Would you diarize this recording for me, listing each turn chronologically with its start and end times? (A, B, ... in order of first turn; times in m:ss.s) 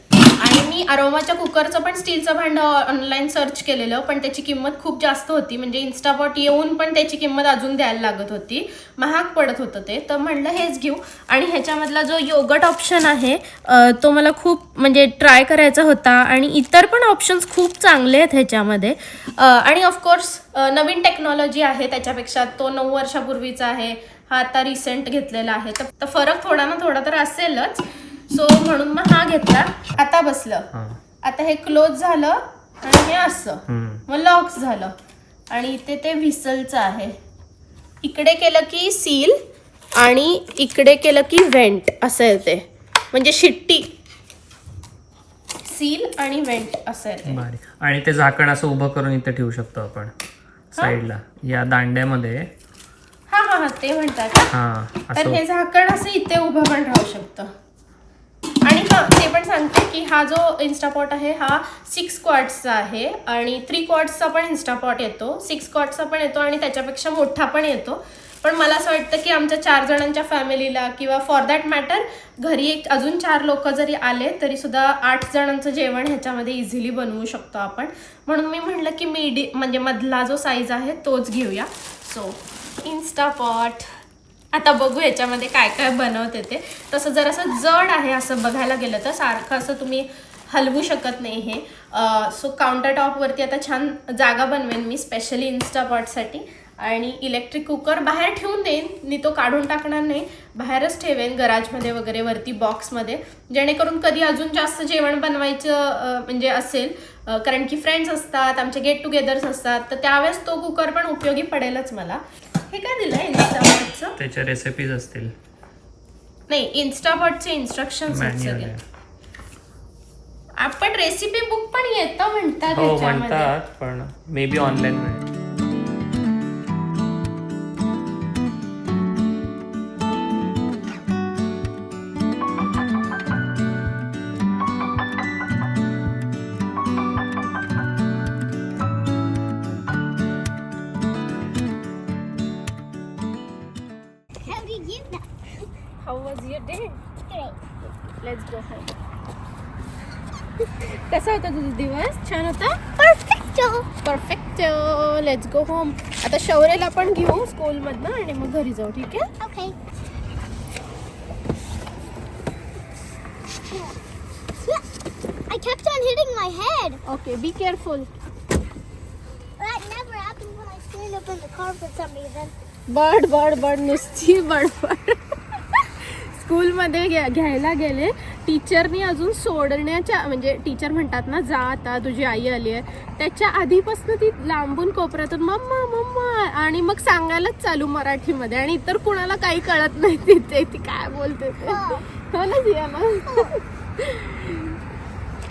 0:00.4-0:30.7 A
0:30.7-0:31.0 B
0:31.2-0:35.0 A
0:33.7-0:34.0 B
0:35.5-0:37.2 A
0:38.0-0:39.4 A
0:40.0-0:43.9 A
0:45.6-0:47.4 A
0:47.2-0:50.1 B
0:50.7-0:52.5 B
0:53.3-0:54.5 A
0:54.5-0:55.4 B
0:55.1-0:57.5 A
0:58.6-1:23.9 A
1:24.5-1:54.2 A
1:54.2-1:55.3 B
1:56.5-1:58.7 A
1:58.1-1:58.8 B
2:00.6-2:03.5 A
2:02.7-2:05.3 B
2:24.4-2:25.3 C
2:26.0-2:27.2 A
2:27.8-2:29.0 A
2:30.6-2:32.9 A
2:33.0-2:33.9 C
2:34.0-2:39.3 A
2:39.4-2:39.8 C
2:45.5-2:47.0 C
2:47.0-2:48.1 A
2:49.6-2:52.5 C
2:52.9-3:14.8 A
3:11.7-3:12.0 C